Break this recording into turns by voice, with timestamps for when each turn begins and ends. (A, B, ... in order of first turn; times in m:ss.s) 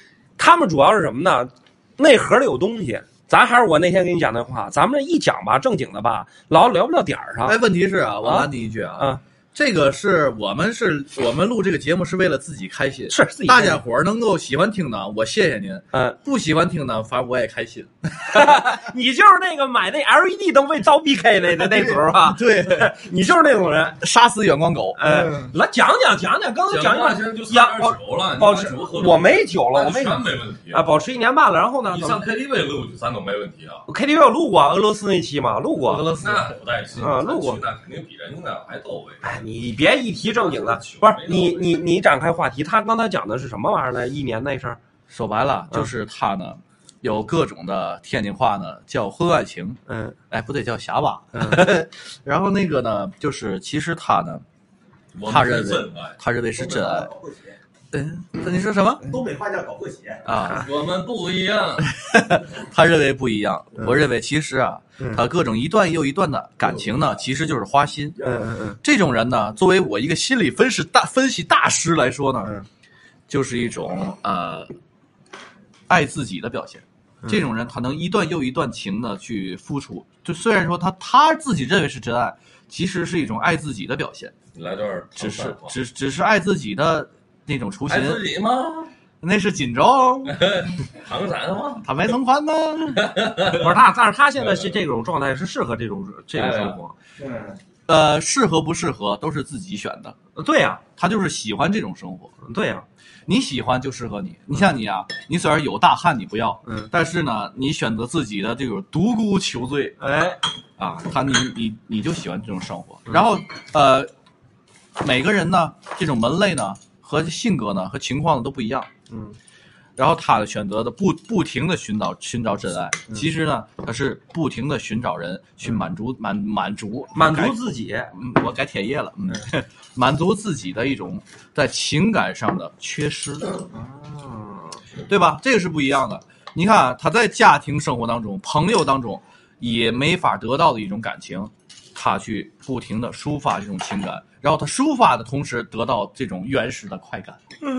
0:00.4-0:07.6 A
0:07.4-0:18.5 B
0:08.2-0:09.2 A
0:13.1-0:13.8 A
0:15.9-0:16.2 A
0:18.3-0:24.0 A
0:21.5-0:22.9 B
0:24.0-0:25.5 B
0:25.0-0:32.2 A
0:26.7-0:30.8 C
0:31.9-0:33.8 C
0:33.8-0:36.0 A
0:35.9-0:39.4 C
0:36.2-0:36.5 B
0:37.0-0:37.6 A
0:39.2-0:44.8 A
0:40.2-0:41.8 C
0:45.1-0:49.8 B
0:49.9-0:50.1 A
0:50.3-0:54.4 B
0:51.3-0:51.7 A
0:55.1-0:56.2 C
0:55.2-0:57.1 B
0:56.6-0:57.6 D
0:57.9-0:59.1 B
0:59.0-1:00.2 D
1:00.2-1:00.6 B
1:00.4-1:01.9 C
1:01.8-1:08.2 B
1:08.2-1:08.8 A
1:08.8-1:12.5 B
1:13.3-1:14.7 B
1:15.9-1:24.3 B
1:24.5-1:25.8 C
1:25.1-1:28.2 B
1:27.9-1:28.9 C
1:29.2-1:30.3 B
1:30.3-1:31.9 C
1:31.8-1:33.1 B
1:33.0-1:33.7 C
1:33.5-1:37.0 A
1:36.3-1:36.8 C
1:37.9-1:40.1 B
1:40.4-1:40.8 A
1:41.0-1:42.3 B
1:42.4-1:42.8 A
1:43.3-1:50.0 B
1:46.6-1:46.9 A
1:50.0-1:50.4 A
1:50.8-1:54.1 B
1:55.0-1:58.9 B
1:59.1-1:59.4 A
2:00.0-2:07.6 B
2:07.1-2:08.1 A
2:08.1-2:13.6 B
2:13.7-2:14.8 A
2:15.1-2:27.4 B